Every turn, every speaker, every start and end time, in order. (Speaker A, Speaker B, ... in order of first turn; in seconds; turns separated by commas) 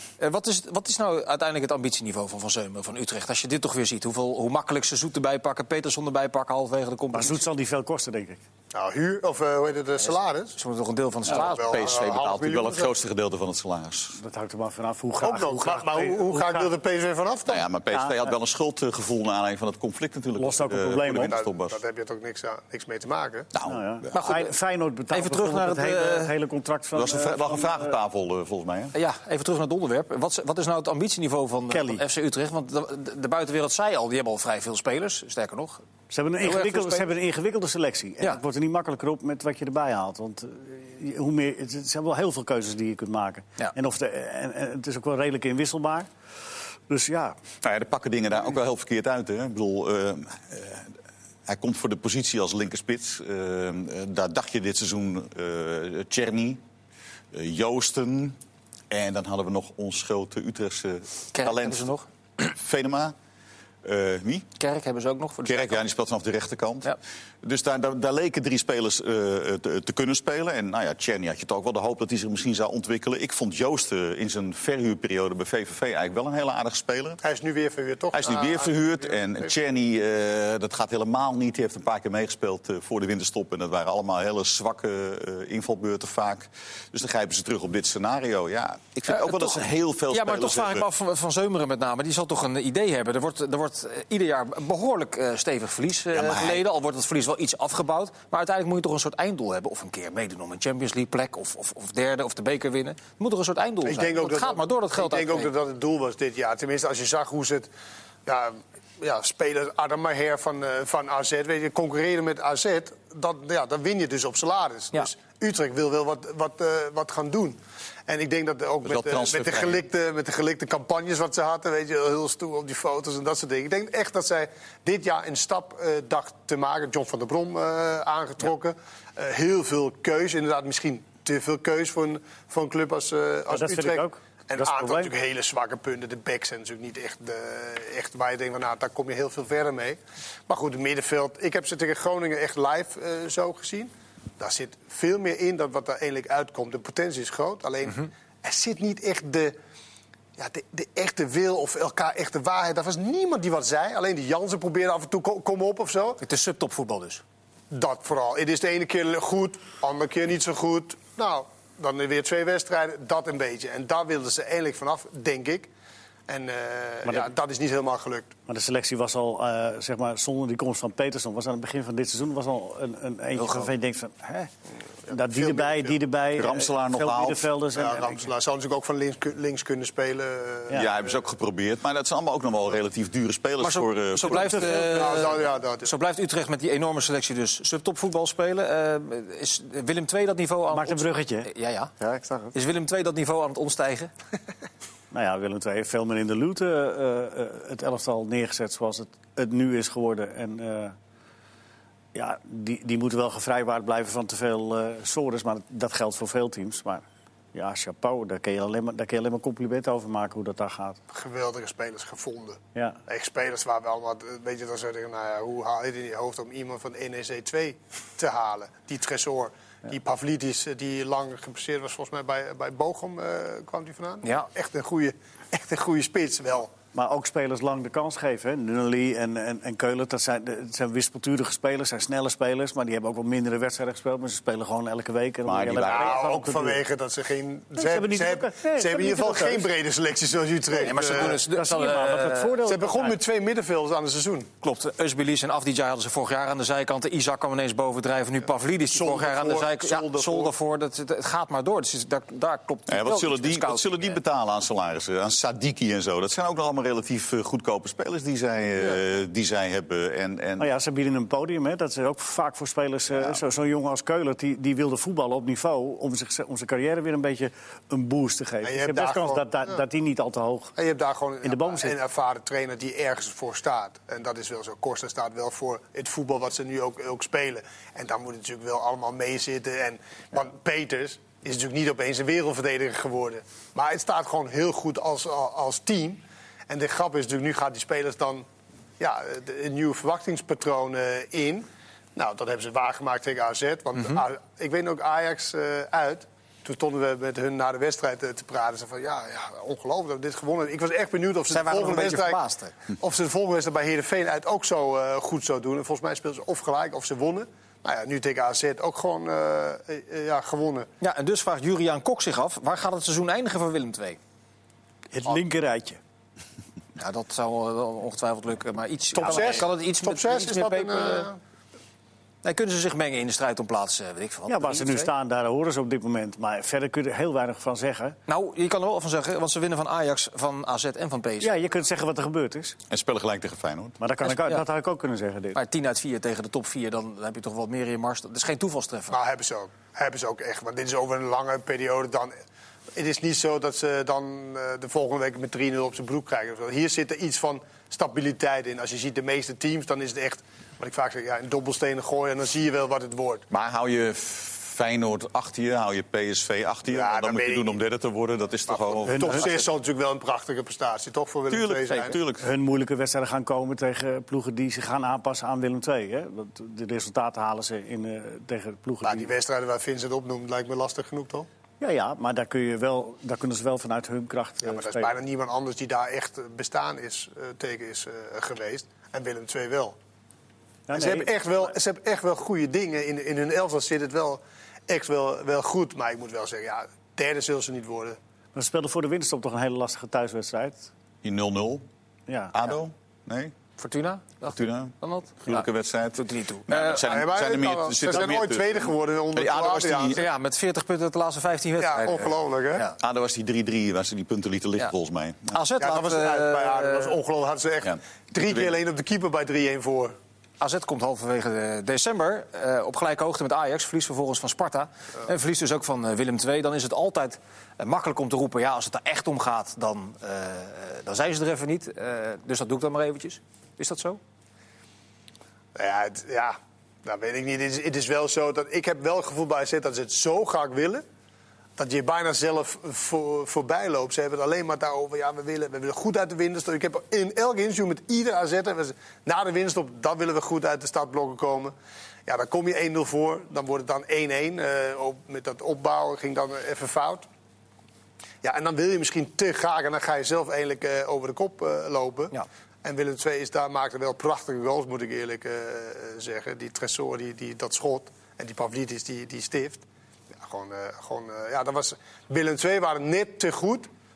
Speaker A: 0.2-7.4, Speaker B: 7.1-8.4, Speaker C: 8.7-10.6, Speaker A: 10.6-11.9, Speaker C: 11.2-12.9, Speaker D: 11.2-14.2, Speaker B: 14.1-16.7, Speaker C: 15.2-17.6, Speaker D: 17.5-21.8, Speaker B: 17.9-18.3, Speaker B: 20.4-21.4, Speaker C: 21.2-23.5, Speaker D: 23.5-24.1, Speaker B: 23.6-27.9, Speaker A: 24.1-24.5, Speaker A: 25.1-26.3, Speaker D: 26.9-28.9, Speaker A: 28.9-35.8, Speaker B: 31.7-32.0, Speaker B: 36.1-46.1, Speaker A: 36.4-37.1, Speaker B: 46.9-47.4, Speaker D: 47.6-50.9, Speaker D: 51.5-56.6, Speaker D: 57.3-58.4, Speaker D: 58.9-63.1, Speaker A: 61.3-62.0, Speaker D: 63.8-64.5, Speaker A: 64.6-65.8, Speaker D: 65.4-77.2, Speaker C: 77.2-78.8, Speaker D: 78.1-90.8, Speaker A: 89.1-105.5, Speaker D: 96.1-96.6, Speaker C: 103.8-107.7, Speaker C: 108.2-149.6, Speaker D: 118.8-119.8, Speaker B: 133.5-135.1, Speaker C: 150.4-156.2, Speaker A: 156.2-157.2, Speaker C: 157.7-165.7, Speaker C: 166.3-168.3, Speaker B: 168.5-174.5, Speaker A: 173.4-173.7, Speaker C: 175.0-176.0, Speaker B: 175.1-178.2, Speaker D: 176.3-177.5, Speaker C: 177.7-181.2, Speaker D: 180.7-184.8, Speaker A: 183.6-191.9, Speaker B: 184.2-185.0, Speaker C: 184.7-185.9, Speaker B: 190.7-191.5, Speaker C: 192.1-192.4, Speaker A: 192.5-194.1, Speaker B: 195.1-200.9, Speaker B: 202.1-211.0, Speaker C: 211.1-226.7, Speaker B: 212.7-213.0, Speaker B: 226.9-236.8, Speaker D: 235.4-236.2, Speaker C: 235.9-241.4, Speaker B: 237.8-239.7, Speaker A: 240.7-242.6, Speaker B: 241.0-243.2, Speaker C: 242.7-244.5, Speaker A: 244.6-254.2, Speaker C: 248.9-250.5, Speaker D: 252.9-260.7, Speaker B: 260.6-270.7, Speaker C: 268.6-269.4, Speaker C: 270.8-288.4, Speaker B: 271.4-271.9, Speaker C: 289.0-302.4, Speaker A: 301.5-302.7, Speaker C: 303.0-310.9, Speaker A: 311.0-314.2, Speaker B: 315.1-316.0, Speaker A: 317.0-321.3, Speaker C: 319.1-321.4, Speaker A: 322.4-325.1, Speaker B: 324.5-328.1, Speaker A: 328.3-331.5, Speaker B: 331.4-332.8, Speaker D: 332.9-334.0, Speaker B: 334.0-335.6, Speaker A: 334.2-334.6, Speaker A: 335.5-339.2, Speaker C: 339.1-342.3, Speaker C: 342.9-353.4, Speaker D: 353.5-359.7, Speaker C: 356.9-357.8, Speaker C: 358.7-362.2, Speaker B: 359.1-359.4, Speaker D: 361.5-362.5, Speaker B: 362.4-369.3, Speaker C: 369.0-371.5, Speaker B: 371.8-375.1, Speaker C: 374.6-379.9, Speaker B: 380.9-381.3, Speaker C: 380.9-388.2, Speaker B: 388.5-390.9, Speaker D: 391.2-391.8, Speaker B: 392.3-392.6, Speaker D: 392.5-393.5, Speaker A: 393.8-397.1, Speaker D: 394.5-400.2, Speaker C: 396.9-400.2, Speaker A: 400.1-402.9, Speaker C: 401.8-402.9, Speaker D: 403.0-405.6, Speaker A: 405.5-407.2, Speaker C: 405.8-410.1, Speaker D: 407.9-408.7, Speaker A: 410.6-424.2, Speaker C: 425.7-431.0, Speaker C: 431.8-441.7, Speaker C: 442.2-447.2, Speaker C: 448.4-459.8, Speaker C: 460.4-463.9